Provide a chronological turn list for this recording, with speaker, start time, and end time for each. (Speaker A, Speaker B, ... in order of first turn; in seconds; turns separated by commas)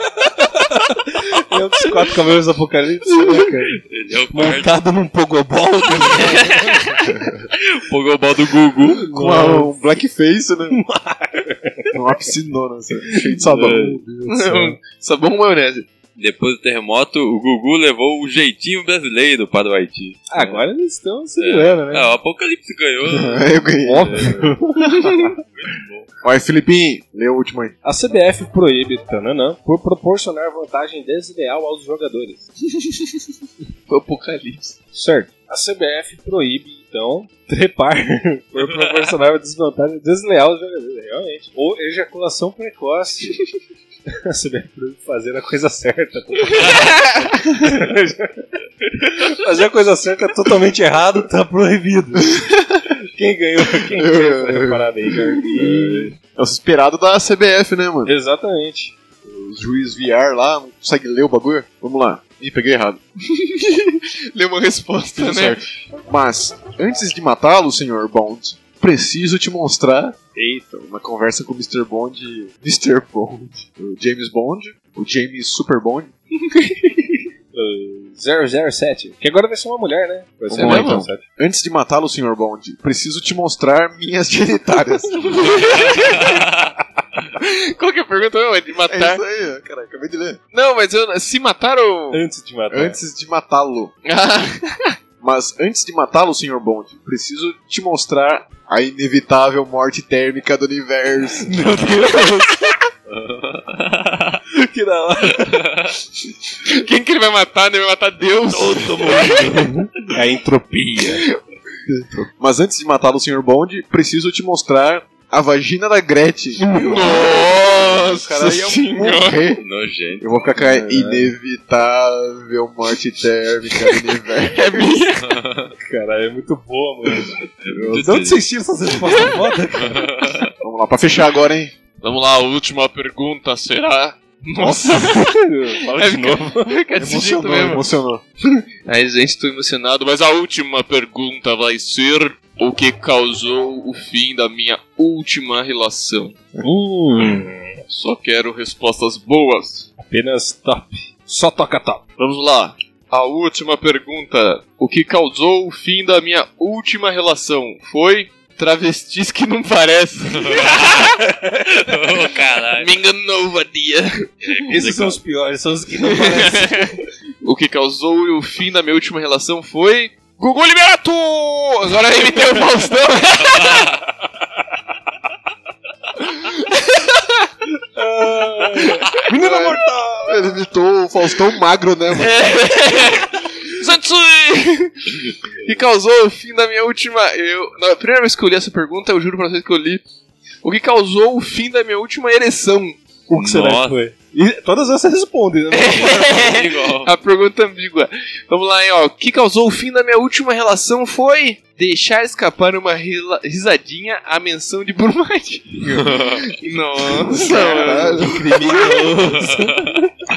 Speaker A: 0.2-3.8, Speaker B: 3.8-4.8, Speaker A: 4.3-7.0, Speaker B: 6.1-9.1, Speaker A: 8.9-9.8, Speaker C: 9.1-10.8, Speaker A: 10.7-12.0, Speaker C: 11.9-14.1, Speaker A: 13.0-14.8, Speaker D: 14.3-15.9, Speaker B: 16.2-20.6, Speaker A: 20.3-22.1, Speaker B: 21.4-23.5, Speaker C: 23.0-25.1, Speaker A: 23.8-25.2, Speaker B: 25.3-26.1, Speaker C: 26.2-27.8, Speaker A: 27.8-32.5, Speaker D: 33.9-34.8, Speaker A: 34.9-43.4, Speaker B: 38.6-39.1, Speaker A: 44.2-52.5, Speaker B: 46.6-46.9, Speaker D: 46.6-47.3, Speaker A: 53.1-56.1, Speaker C: 53.9-58.1, Speaker A: 58.1-59.0, Speaker C: 59.2-63.0, Speaker D: 63.3-65.6, Speaker C: 65.1-70.2, Speaker A: 70.4-70.8, Speaker C: 70.7-76.1, Speaker D: 76.5-77.2, Speaker A: 77.5-81.2, Speaker C: 80.5-85.8, Speaker D: 80.5-81.1, Speaker D: 85.3-86.4, Speaker B: 85.4-86.8, Speaker D: 87.3-89.2, Speaker C: 88.9-90.4, Speaker D: 90.5-92.2, Speaker A: 92.1-93.0, Speaker C: 92.7-93.9, Speaker D: 94.0-95.0, Speaker C: 95.2-101.5, Speaker A: 101.5-102.7, Speaker B: 103.1-104.4, Speaker A: 104.5-105.7, Speaker B: 105.3-106.0, Speaker D: 106.6-109.7, Speaker A: 108.5-111.3, Speaker C: 111.9-119.6, Speaker D: 116.6-119.4, Speaker B: 119.5-120.3, Speaker C: 120.2-125.0, Speaker A: 120.6-121.3, Speaker D: 124.5-125.4, Speaker B: 125.2-125.7, Speaker A: 125.8-127.4, Speaker B: 127.6-128.4, Speaker C: 127.7-128.2, Speaker A: 127.9-130.1, Speaker B: 129.1-130.5, Speaker C: 130.6-131.7, Speaker D: 132.0-135.3, Speaker C: 134.6-135.2, Speaker A: 134.8-136.7, Speaker D: 135.8-137.9, Speaker C: 137.0-138.2, Speaker D: 138.8-146.4, Speaker A: 146.6-147.8, Speaker D: 147.9-149.9, Speaker A: 150.0-152.0, Speaker D: 152.2-161.2, Speaker B: 160.3-161.2, Speaker A: 161.3-161.6, Speaker B: 161.8-162.9, Speaker D: 162.8-164.3, Speaker B: 164.4-165.2, Speaker A: 164.7-166.9, Speaker D: 166.0-173.9, Speaker B: 173.4-174.0, Speaker D: 176.4-177.3, Speaker A: 177.9-180.4, Speaker D: 178.8-179.1, Speaker C: 179.3-182.4, Speaker D: 182.2-190.0, Speaker D: 190.6-193.0, Speaker A: 193.3-196.5, Speaker B: 193.3-194.0, Speaker D: 195.7-209.5, Speaker B: 195.9-197.1, Speaker B: 205.9-206.6, Speaker C: 207.2-208.8, Speaker A: 207.6-209.9, Speaker B: 209.2-210.0